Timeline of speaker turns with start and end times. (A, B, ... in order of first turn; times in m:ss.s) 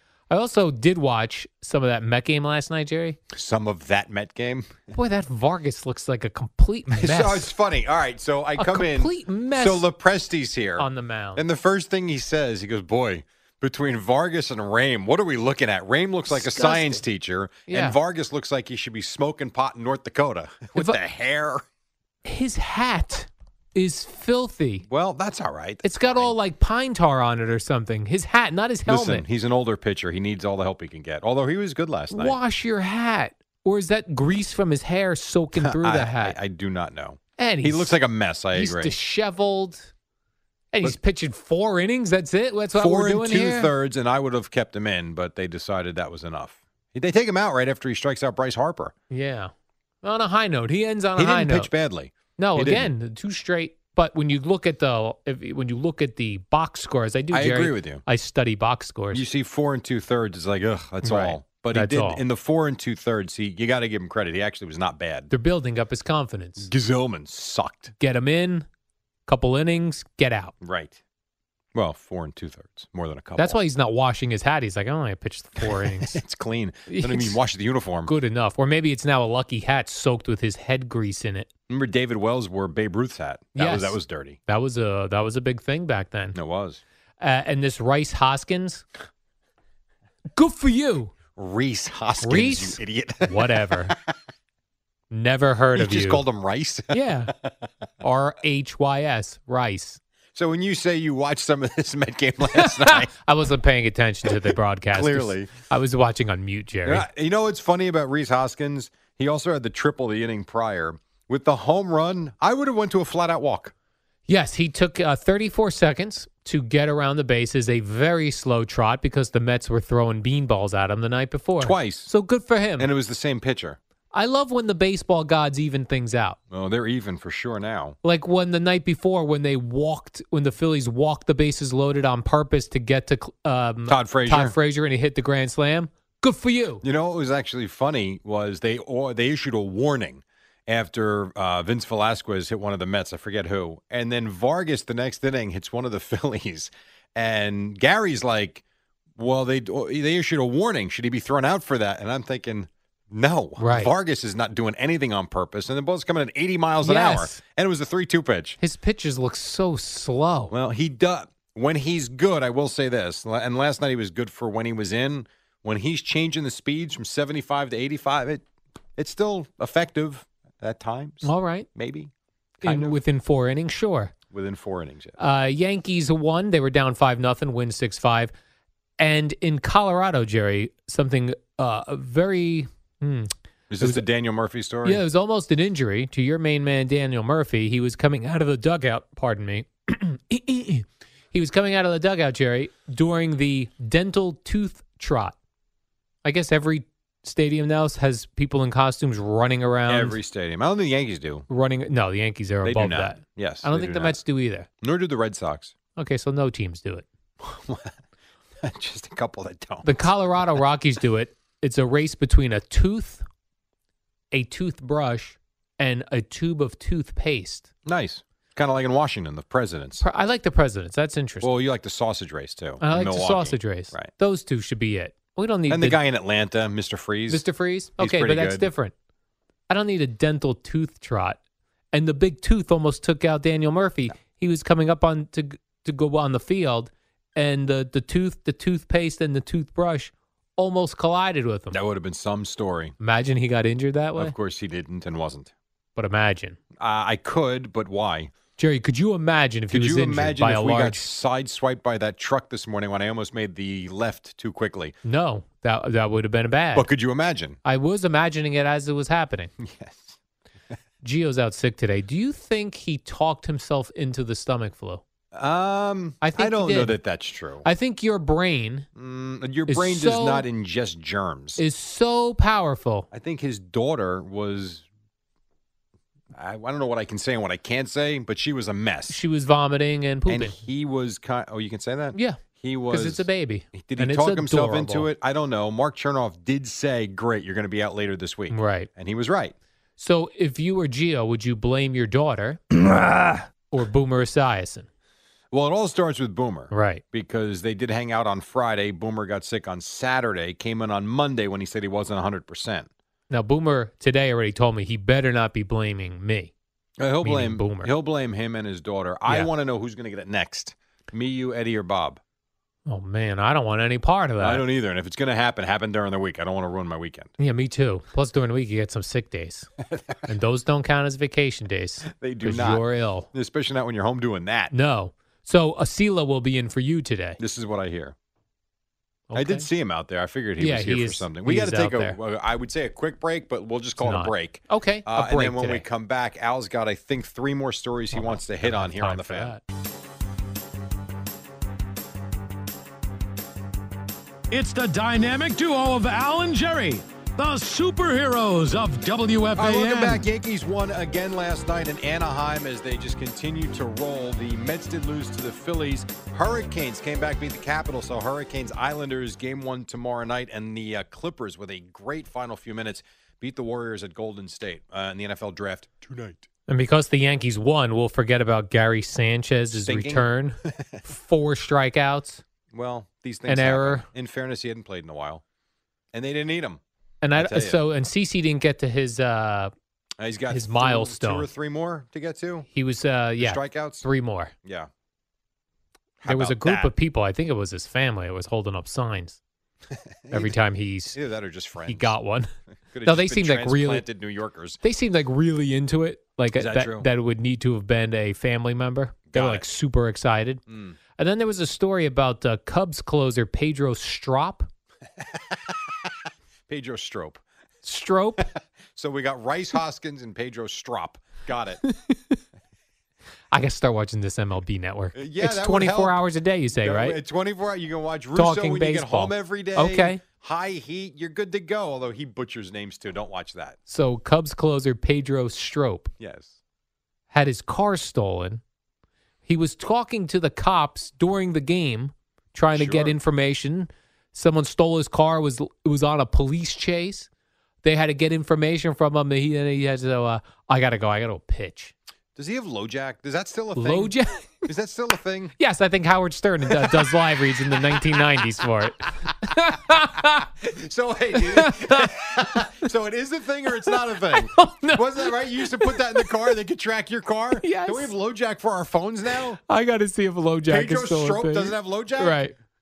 0:00.3-0:03.2 A
0:03.3-0:04.8 B
0:04.9-0:07.5 A
0:06.9-0:21.6 B
0:08.6-0:09.8 A
0:10.8-0:11.4 A
0:16.3-0:17.0 A
0:17.7-0:18.0 A
0:22.2-0:24.8 A
0:24.9-0:26.3 B
0:25.8-0:29.2 A
0:28.9-0:32.4 B
0:32.1-0:36.4 A
0:35.6-0:38.9 B
0:37.4-0:37.9 A
0:38.5-0:39.9 A
0:40.7-0:43.7 A
0:42.7-0:48.9 B
0:49.1-0:49.5 A
0:50.0-0:51.7 A
0:51.2-0:52.9 B
0:52.4-0:59.2 A
0:57.3-0:58.0 B
0:59.1-1:05.3 B
1:01.0-1:02.2 A
1:05.3-1:06.7 A
1:06.6-1:07.9 B
1:08.0-1:08.7 A
1:09.3-1:10.5 A
1:10.6-1:11.0 B
1:11.7-1:13.6 B
1:13.4-1:16.2 A
1:15.6-1:18.1 B
1:16.9-1:17.4 A
1:18.1-1:21.5 A
1:21.7-1:24.4 B
1:23.6-1:26.4 A
1:26.3-1:26.8 B
1:27.2-1:28.8 A
1:30.4-1:31.1 A
1:31.4-1:33.9 B
1:32.2-1:33.9 A
1:35.1-1:36.2 A
1:35.7-1:37.5 B
1:36.9-1:37.3 A
1:38.0-1:40.0 A
1:40.3-1:43.1 B
1:42.5-1:47.0 A
1:44.9-1:45.5 B
1:46.8-1:53.7 B
1:54.3-2:02.9 A
2:01.6-2:02.1 B
2:02.8-2:03.8 B
2:04.1-2:06.4 A
2:06.5-2:08.0 B
2:08.0-2:16.8 A
2:13.9-2:14.5 B
2:16.8-2:28.6 B
2:29.2-2:38.6 B
2:33.6-2:33.9 A
2:36.8-2:37.4 A
2:38.6-2:40.5 A
2:40.5-2:48.4 B
2:49.0-2:53.0 B
2:51.2-2:51.7 A
2:52.6-2:54.1 A
2:54.3-2:55.2 B
2:55.2-2:58.3 A
2:59.0-3:04.0 A
3:03.7-3:05.0 B
3:04.8-3:15.3 A
3:16.2-3:20.2 A
3:19.9-3:21.5 B
3:21.5-3:24.7 A
3:22.6-3:24.2 B
3:24.8-3:25.7 B
3:26.0-3:27.0 A
3:27.4-3:27.9 B
3:28.6-3:30.0 B
3:29.8-3:33.2 A
3:34.3-3:37.7 A
3:37.8-3:40.0 B
3:40.0-3:41.5 A
3:41.4-3:44.1 B
3:42.8-3:46.0 A
3:45.7-3:47.5 B
3:47.3-3:48.9 A
3:48.0-3:48.7 B
3:49.7-3:51.4 A
3:51.9-4:01.8 A
4:01.7-4:02.9 B
4:03.0-4:04.3 A
4:04.2-4:05.5 B
4:06.0-4:06.6 A
4:06.8-4:08.3 B
4:08.6-4:11.0 A
4:09.7-4:15.0 B
4:15.0-4:16.9 A
4:16.7-4:17.6 B
4:17.6-4:19.5 A
4:19.6-4:20.2 B
4:21.0-4:25.0 A
4:25.3-4:27.6 B
4:26.2-4:27.0 A
4:27.6-4:28.9 A
4:29.0-4:31.6 B
4:29.7-4:30.4 A
4:31.6-4:33.1 A
4:33.1-4:34.8 B
4:36.3-4:39.2 B
4:39.1-4:40.5 A
4:40.3-4:49.5 B
4:42.1-4:45.1 A
4:48.5-4:48.9 A
4:50.0-4:54.9 A
4:55.5-5:02.9 B
4:56.7-4:57.0 A
5:03.3-5:06.5 A
5:07.0-5:12.2 B
5:07.2-5:07.9 A
5:12.9-5:14.6 A
5:14.4-5:17.3 B
5:17.4-5:19.7 A
5:19.9-5:20.2 B
5:20.2-5:23.3 A
5:22.0-5:24.7 B
5:24.7-5:27.4 A
5:27.4-5:28.1 B
5:29.3-5:29.7 A
5:29.4-5:39.6 B
5:30.6-5:32.2 A
5:34.0-5:35.8 A
5:38.1-5:39.6 A
5:44.5-5:50.2 C
5:49.6-6:06.5 B
6:06.7-6:12.4 A
6:09.7-6:11.0 B
6:12.7-6:15.4 B
6:13.5-6:14.0 A
6:16.1-6:16.8 B
6:17.2-6:19.7 A
6:17.4-6:17.8 B
6:20.2-6:22.7 B
6:20.5-6:21.5 A
6:22.7-6:24.5 A
6:23.4-6:24.0 B
6:26.2-6:26.9 B
6:26.2-6:29.4 A
6:29.9-6:30.5 B
6:30.3-6:31.2 A
6:31.1-6:32.1 B
6:31.8-6:32.5 A
6:32.9-6:34.8 B
6:33.0-6:34.0 A
6:34.8-6:40.6 A
6:36.5-6:37.1 B
6:39.3-6:39.6 B
6:40.7-6:41.0 B
6:41.2-6:44.7 A
6:46.7-6:47.4 B
6:47.8-6:48.4 A
6:48.4-6:51.8 B
6:51.8-6:52.4 A
6:53.5-6:57.2 A
6:55.1-6:56.2 B
6:56.8-7:03.8 B
6:58.3-7:00.2 A
7:03.9-7:06.1 A
7:06.2-7:06.5 B
7:07.3-7:08.6 A
7:09.4-7:17.3 A
7:12.7-7:13.2 B
7:17.8-7:21.9 A
7:22.4-7:25.5 B
7:23.8-7:24.7 A
7:25.6-7:30.5 A
7:26.7-7:27.1 B
7:30.6-7:39.6 B
7:31.3-7:32.8 A
7:33.9-7:36.3 A
7:37.6-7:38.1 A
7:39.7-7:42.5 A
7:40.7-7:42.4 B